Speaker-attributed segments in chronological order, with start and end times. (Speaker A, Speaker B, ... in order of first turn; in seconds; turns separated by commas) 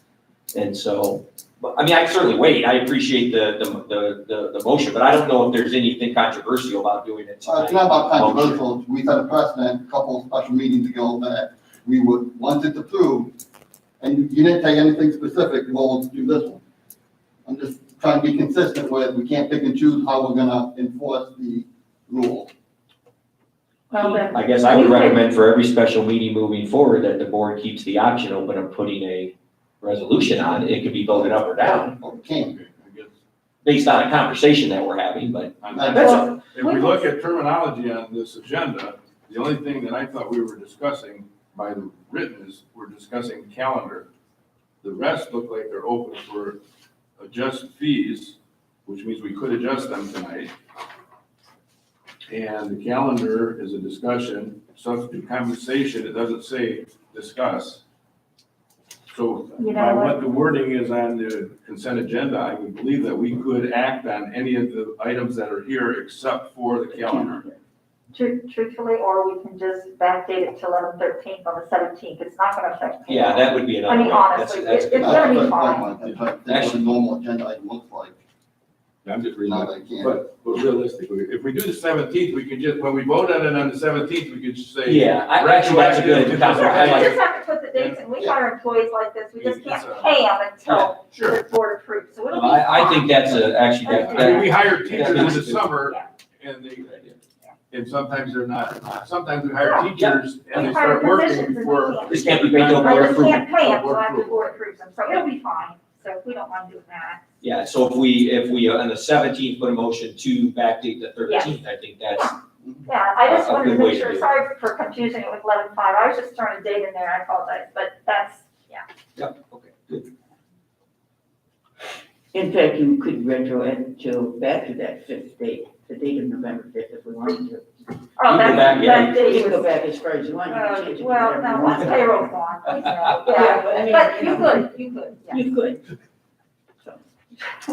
Speaker A: 0.5-8.6, Speaker B: 7.4-13.3, Speaker B: 14.0-16.6, Speaker B: 17.5-22.5, Speaker C: 23.9-25.2, Speaker A: 24.1-31.9, Speaker B: 31.1-32.5, Speaker D: 32.3-33.1, Speaker A: 33.6-35.5, Speaker D: 35.6-44.1, Speaker B: 35.7-36.3, Speaker C: 35.9-37.0, Speaker D: 44.8-46.6, Speaker D: 47.2-50.5, Speaker D: 52.3-57.8, Speaker D: 59.1-67.5, Speaker C: 59.6-60.2, Speaker E: 66.8-67.6, Speaker C: 68.1-75.9, Speaker A: 73.1-75.4, Speaker B: 75.0-78.2, Speaker A: 76.5-76.8, Speaker D: 79.0-87.2, Speaker B: 79.5-80.2, Speaker A: 84.8-87.2, Speaker C: 86.5-95.3, Speaker D: 87.7-88.1, Speaker D: 89.4-90.2, Speaker D: 91.1-91.4, Speaker A: 92.3-95.7, Speaker D: 93.9-97.2, Speaker D: 97.7-104.6, Speaker C: 99.6-99.9, Speaker A: 99.8-100.6, Speaker C: 100.5-107.2, Speaker A: 102.1-103.5, Speaker A: 107.4-112.3, Speaker C: 111.3-111.5, Speaker C: 112.1-118.8, Speaker A: 113.2-114.3, Speaker A: 119.2-120.1, Speaker E: 122.3-127.7, Speaker C: 128.2-129.8, Speaker A: 128.3-129.2, Speaker E: 128.4-132.3, Speaker C: 130.5-135.4, Speaker E: 133.2-134.7, Speaker E: 135.3-135.8